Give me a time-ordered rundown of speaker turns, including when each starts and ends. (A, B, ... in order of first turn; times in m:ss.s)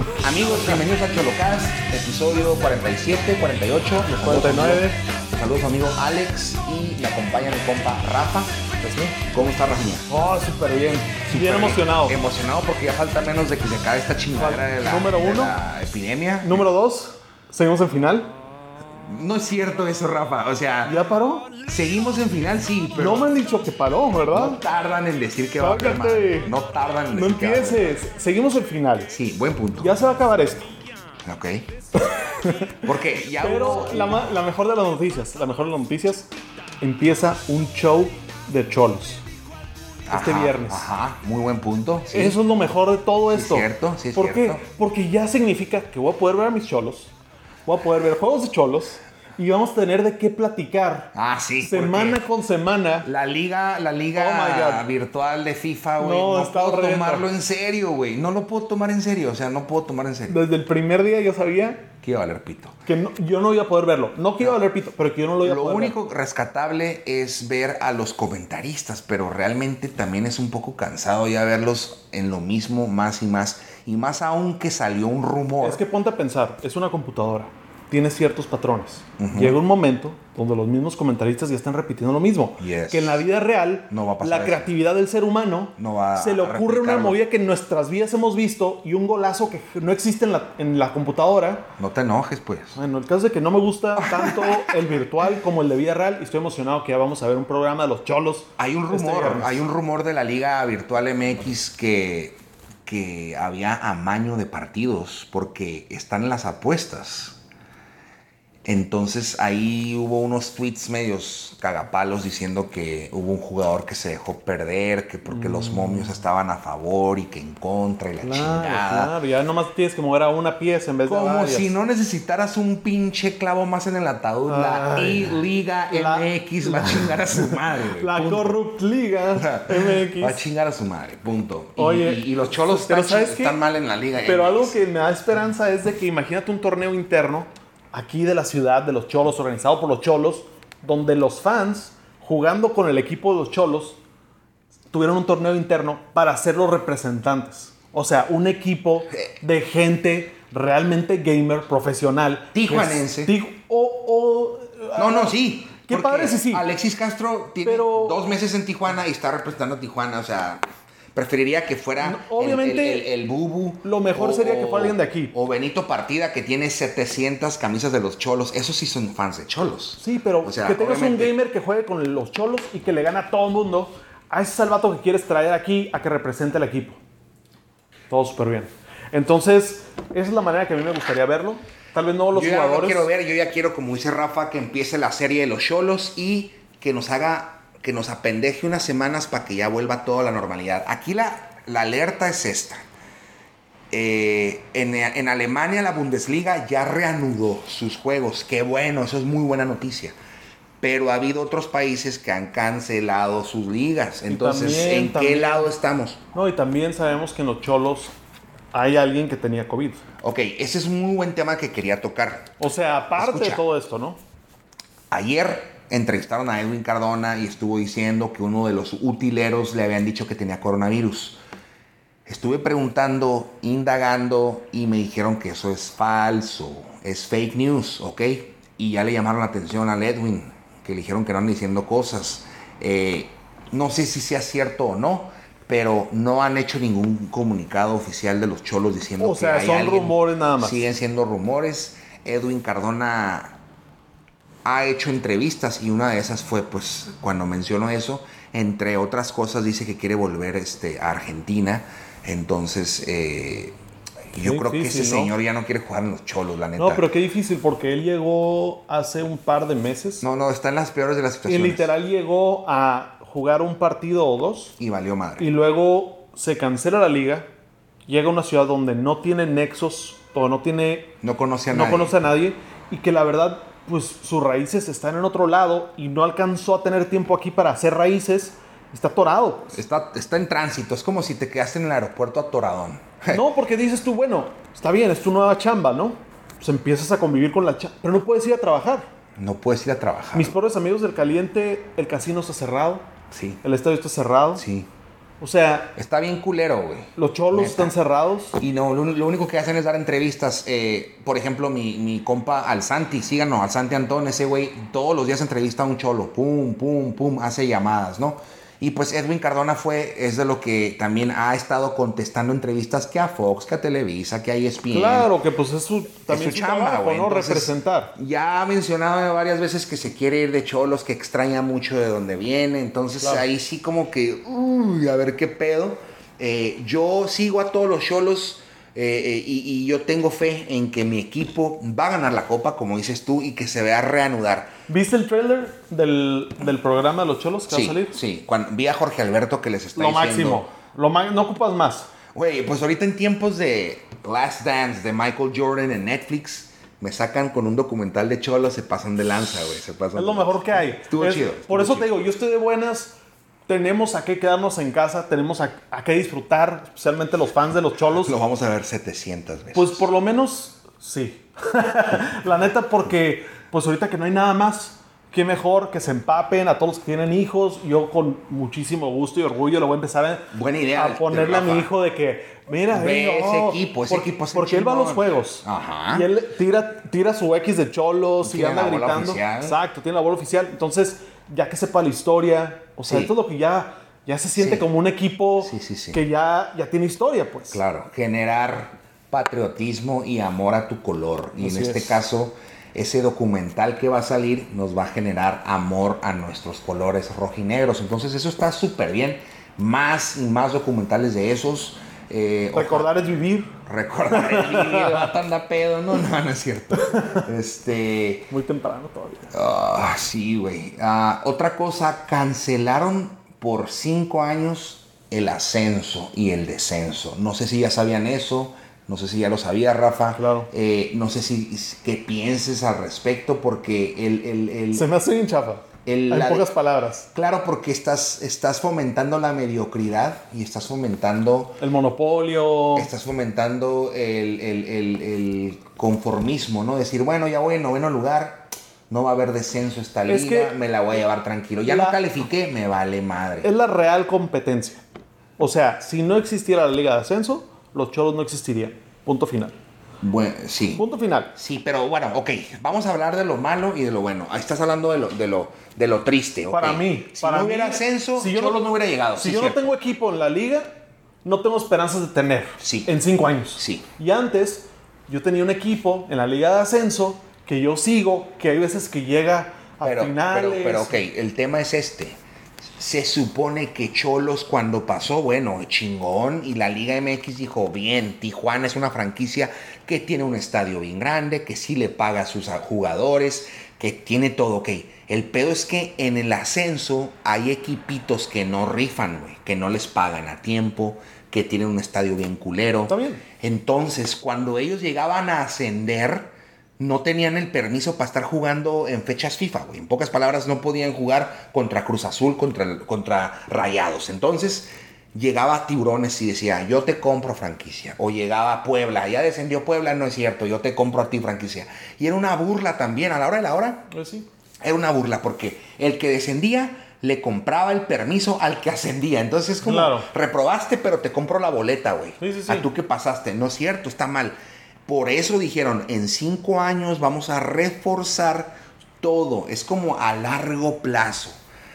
0:00.2-0:10.0 A
0:04.0-0:05.0 B
0:10.1-0:12.2 B
0:11.3-0:16.6 A
0:14.4-0:15.6 B
0:16.4-0:18.3 B
0:19.0-0:21.0 A
0:20.8-0:21.5 B
0:21.6-0:23.3 A
0:22.9-0:24.6 B
0:24.3-0:27.9 A
0:25.6-0:26.5 B
0:27.1-0:29.1 B
0:29.1-0:30.0 A
0:29.8-0:30.7 B
0:31.2-0:31.7 A
0:32.0-0:32.7 B
0:32.8-0:34.3 A
0:33.4-0:36.3 B
0:36.8-0:39.2 B
0:40.0-0:42.4 A
0:40.1-0:40.9 B
0:42.1-0:47.1 B
0:43.3-0:44.6 A
0:47.6-0:53.1 B
0:51.1-0:52.2 A
0:53.0-1:00.3 A
0:54.1-0:54.9 B
0:56.0-0:57.3 B
1:00.3-1:01.9 B
1:02.0-1:02.8 A
1:02.8-1:06.0 B
1:05.4-1:15.8 A
1:15.6-1:31.7 B
1:19.2-1:19.6 A
1:22.6-1:23.2 A
1:23.9-1:24.7 A
1:25.8-1:27.2 A
1:31.8-1:32.8 A
1:32.7-1:39.6 B
1:34.0-1:34.7 A
1:38.6-1:47.4 A
1:48.6-1:59.1 A
1:55.3-1:56.2 B
1:58.2-2:01.7 B
2:01.0-2:08.6 A
2:04.5-2:05.4 B
2:05.9-2:10.4 B
2:09.3-2:14.8 A
2:11.8-2:13.6 B
2:14.2-2:24.0 B
2:24.9-2:35.3 B
2:32.5-2:33.3 A
2:34.9-2:51.4 A
2:35.9-2:36.6 B
2:37.6-2:38.2 B
2:42.0-2:43.1 B
2:43.8-2:45.3 B
2:50.0-2:57.0 B
2:58.1-3:03.1 B
3:02.3-3:12.8 A
3:13.9-3:20.1 A
3:20.8-3:26.2 A
3:24.3-3:25.7 B
3:26.3-3:28.1 B
3:28.7-3:30.0 B
3:30.2-3:32.5 A
3:32.6-3:34.2 B
3:33.2-3:33.6 A
3:35.1-3:41.4 A
3:42.2-4:03.6 A
3:59.2-4:00.9 B
4:04.6-4:13.8 A
4:14.3-4:17.0 A
4:14.4-4:15.3 B
4:16.8-4:20.2 B
4:20.2-4:21.9 A
4:21.5-4:24.7 B
4:24.8-4:25.5 A
4:25.4-4:27.5 B
4:28.0-4:31.2 B
4:31.2-4:32.2 A
4:31.7-4:39.8 B
4:39.7-4:43.4 A
4:43.3-4:49.1 B
4:49.4-4:50.6 A
4:50.3-4:53.1 B
4:53.3-4:53.6 A
4:53.6-4:54.6 B
4:54.6-4:54.9 A
4:55.4-4:55.9 B
4:55.9-4:57.9 A
4:57.2-4:58.6 B
4:58.6-5:15.3 A
5:14.9-5:18.1 B
5:16.3-5:34.7 A
5:34.9-5:38.2 B
5:37.7-5:40.6 A
5:40.0-5:42.1 B
5:42.3-5:52.1 A
5:50.1-5:58.3 B
5:58.2-6:00.1 A
5:59.7-6:27.8 B
6:10.5-6:11.9 A
6:12.9-6:16.3 A
6:18.4-6:19.8 A
6:23.0-6:23.3 A
6:24.5-6:24.8 A
6:25.6-6:26.2 A
6:27.7-6:43.1 A
6:31.6-6:32.2 B
6:42.7-6:43.7 B
6:43.8-6:48.5 A
6:44.3-6:45.3 B
6:48.5-6:49.5 B
6:49.5-7:05.1 A
7:00.4-7:00.7 B
7:04.9-7:07.3 B
7:06.0-7:06.7 A
7:07.3-7:11.8 A
7:11.8-7:13.1 B
7:12.9-7:23.7 A
7:20.3-7:20.7 B
7:21.8-7:22.2 B
7:23.6-7:25.0 B
7:25.6-7:29.8 B
7:30.2-7:39.9 A
7:31.0-7:31.5 B
7:36.7-7:38.8 B
7:39.3-7:51.2 B
7:42.8-7:43.1 A
7:43.8-7:44.0 A
7:50.0-7:52.4 A
7:53.0-8:34.1 A
8:13.1-8:13.4 B
8:34.1-8:34.5 B
8:34.8-8:51.5 A
8:39.8-8:40.3 B
8:42.4-8:42.9 B